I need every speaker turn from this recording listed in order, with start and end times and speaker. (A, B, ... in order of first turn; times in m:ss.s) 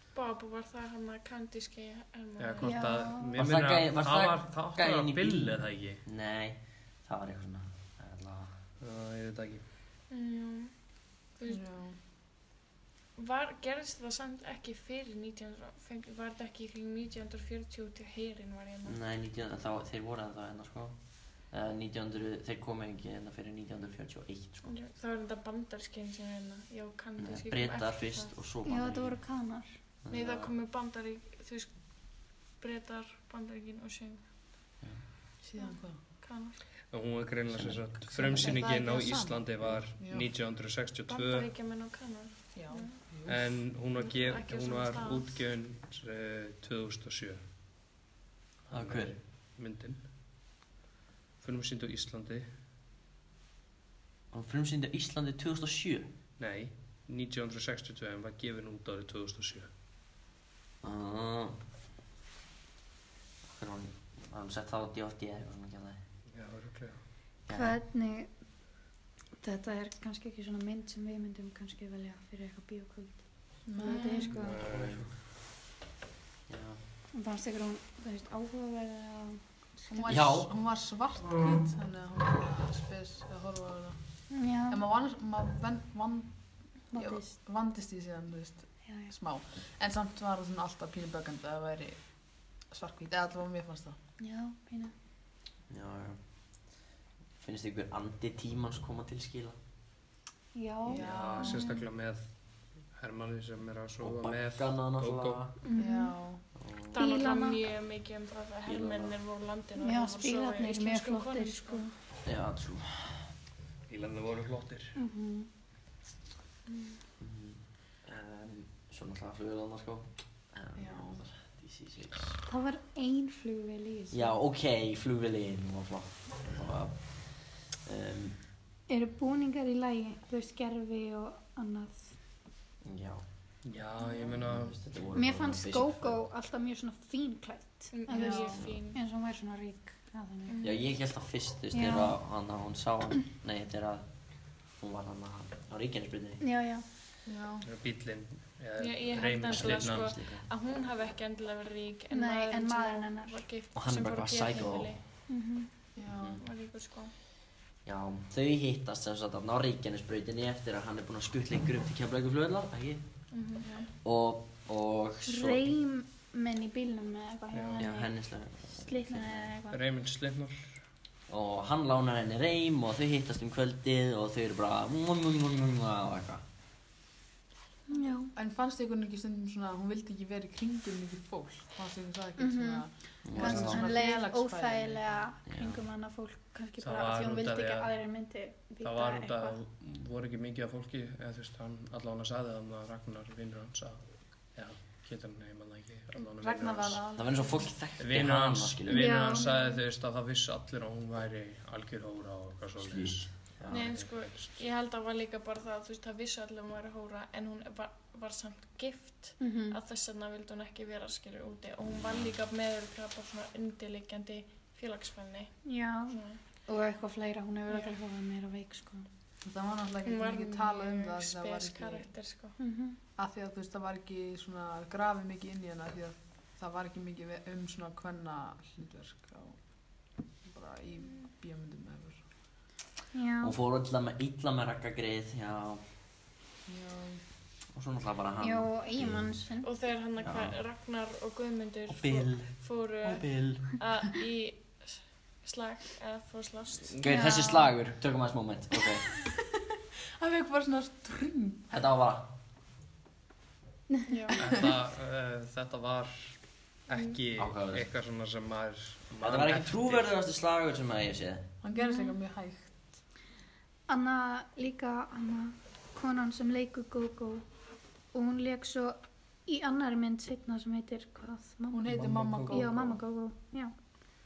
0:00.1-0:02.8 A
0:02.4-0:06.0 B
0:02.6-0:03.4 C
0:03.4-0:08.6 D
0:08.8-0:09.6 B
0:10.1-0:10.7 A
0:11.3-0:11.6 A
0:11.5-0:12.0 E
0:13.2-0:19.0 A
0:18.8-0:24.7 D
0:24.6-0:28.4 A
0:27.2-0:29.2 D
0:28.6-0:29.8 C
0:30.0-0:30.5 D
0:30.1-0:34.2 A
0:35.4-0:36.0 E
0:35.6-0:36.6 A
0:36.9-0:41.5 B
0:37.5-0:38.6 D
0:38.1-0:40.3 E
0:41.1-0:43.0 A
0:42.5-0:43.4 E
0:43.2-0:47.4 B
0:44.0-0:45.4 A
0:48.6-0:50.1 B
0:48.7-0:49.1 D
0:51.4-0:52.5 B
0:54.3-0:56.1 D
0:56.4-0:59.7 B
1:00.8-1:01.5 D
1:03.4-1:06.0 D
1:06.3-1:07.0 B
1:07.5-1:07.8 D
1:07.5-1:08.3 C
1:09.4-1:14.6 C
1:13.6-1:14.3 E
1:13.8-1:14.3 A
1:14.3-1:15.1 B
1:14.5-1:15.1 D
1:16.5-1:16.8 D
1:17.1-1:20.3 C
1:19.9-1:24.0 E
1:20.1-1:20.5 D
1:24.3-1:24.8 C
1:24.6-1:34.0 E
1:26.9-1:27.3 C
1:28.8-1:29.1 C
1:34.2-1:34.9 C
1:35.7-1:36.2 D
1:37.4-1:39.6 D
1:40.5-1:41.8 C
1:40.9-1:41.6 E
1:40.9-1:42.3 B
1:42.9-1:45.5 B
1:44.0-1:45.5 D
1:45.6-1:46.1 C
1:45.7-1:46.4 E
1:46.6-1:47.0 D
1:46.9-1:47.6 C
1:46.9-1:51.9 A
1:48.6-1:49.2 D
1:49.8-1:51.9 C
1:52.2-1:53.3 D
1:53.9-1:55.0 B
1:55.0-1:55.5 C
1:56.7-1:57.0 A
1:57.2-2:02.4 D
2:00.8-2:01.2 E
2:02.4-2:04.4 C
2:04.1-2:08.4 D
2:08.9-2:12.1 C
2:12.8-2:13.2 D
2:13.6-2:14.8 B
2:14.4-2:16.2 D
2:15.1-2:20.7 C
2:17.9-2:19.0 A
2:18.1-2:18.6 E
2:20.4-2:20.8 A
2:20.6-2:26.4 D
2:21.7-2:22.2 C
2:26.4-2:26.8 C
2:27.2-2:27.6 E
2:27.6-2:30.1 B
2:28.8-2:35.0 A
2:29.5-2:30.5 D
2:32.1-2:33.4 C
2:33.7-2:35.0 D
2:35.3-2:35.7 C
2:35.9-2:36.4 E
2:36.1-2:36.4 D
2:36.4-2:37.1 A
2:37.8-2:43.0 D
2:43.3-2:43.7 A
2:43.6-2:43.9 E
2:44.0-2:45.7 D
2:45.3-2:49.8 C
2:47.5-2:47.9 B
2:47.8-2:49.5 D
2:49.7-2:50.8 B
2:51.3-2:56.4 D
2:57.9-2:58.3 C
2:58.3-3:05.0 E
3:02.4-3:09.5 C
3:03.2-3:03.9 D
3:05.4-3:05.8 D
3:06.8-3:08.0 B
3:08.8-3:17.1 B
3:16.2-3:17.7 E
3:17.2-3:19.1 D
3:18.0-3:24.6 B
3:18.8-3:19.7 C
3:22.8-3:23.8 D
3:23.7-3:36.4 A
3:29.4-3:29.8 C
3:35.6-3:39.1 C
3:37.7-3:37.9 A
3:39.4-3:42.1 E
3:40.0-3:42.6 A
3:42.6-3:43.0 C
3:43.2-3:49.7 E
3:50.4-3:52.2 E
3:53.1-3:53.5 C
3:53.4-3:55.8 D
3:56.6-3:57.2 E
3:57.7-3:59.3 D
3:58.4-3:59.7 C
3:59.6-4:07.0 A
4:00.2-4:00.6 D
4:01.9-4:03.7 D
4:07.0-4:09.0 D
4:07.0-4:07.7 C
4:09.0-4:09.6 E
4:10.2-4:11.8 E
4:11.7-4:12.3 D
4:14.1-4:14.4 A
4:14.4-4:20.1 B
4:17.4-4:17.8 D
4:19.2-4:21.4 D
4:21.6-4:22.9 E
4:21.7-4:22.1 C
4:23.9-4:27.4 C
4:28.1-4:31.8 C
4:31.7-4:32.7 E
4:31.8-4:33.0 B
4:32.5-4:33.7 C